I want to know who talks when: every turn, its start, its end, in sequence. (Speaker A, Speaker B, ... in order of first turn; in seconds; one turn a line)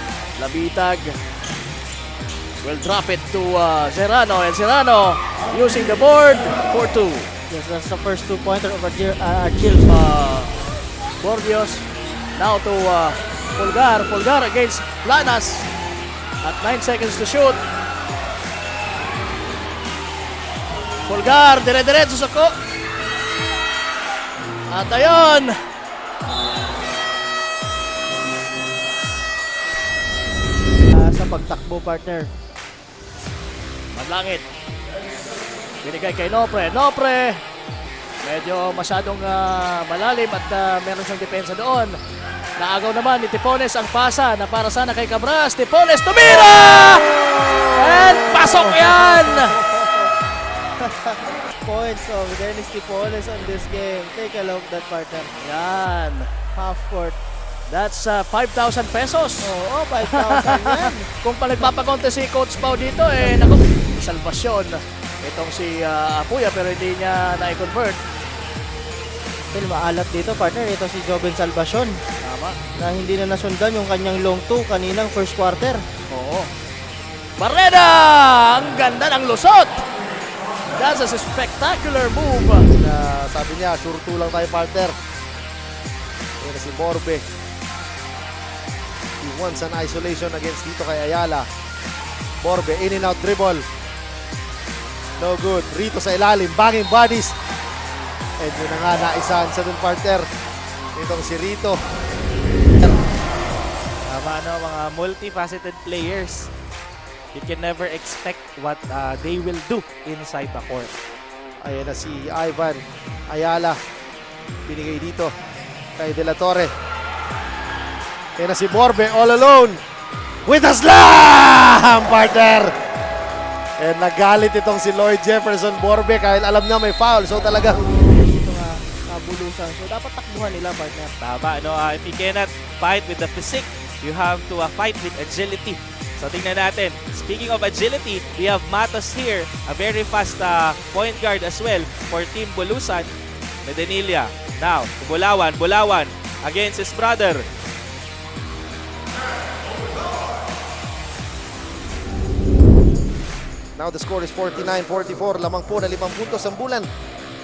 Speaker A: 0.4-1.2
Speaker A: 2.6-7.3
Speaker B: 7.5-9.9
Speaker A: 9.9-10.5
Speaker A: 11.2-15.7
Speaker A: 16.4-17.6
Speaker A: 21.1-22.5
Speaker A: 24.7-25.6
Speaker B: 30.9-32.3
Speaker A: 33.9-34.5
Speaker A: 35.8-37.4
Speaker A: 38.2-42.0
Speaker A: 42.6-49.6
Speaker B: 48.1-50.1
Speaker B: 50.8-55.3
Speaker A: 55.4-56.3
Speaker B: 56.5-57.2
Speaker A: 57.7-68.0
Speaker B: 59.4-61.1
Speaker B: 69.5-71.9
Speaker A: 72.2-72.6
Speaker B: 72.8-75.8
Speaker A: 76.1-76.5
Speaker A: 77.4-79.8
Speaker A: 80.8-82.7
Speaker C: 82.8-85.0
Speaker C: 86.4-87.2
Speaker C: 89.2-91.5
Speaker C: 92.4-93.7
Speaker C: 95.2-97.3
Speaker C: 98.4-100.3
Speaker C: 100.9-101.8
Speaker D: 104.0-106.5
Speaker D: 107.3-110.9
Speaker C: 111.6-113.8
Speaker C: 114.7-115.3
Speaker C: 116.0-116.7
Speaker C: 118.4-119.8
Speaker C: 120.5-122.7
Speaker C: 123.8-127.8
Speaker B: 128.0-131.2
Speaker D: 131.2-143.1
Speaker D: 143.6-147.5
Speaker C: 153.8-156.9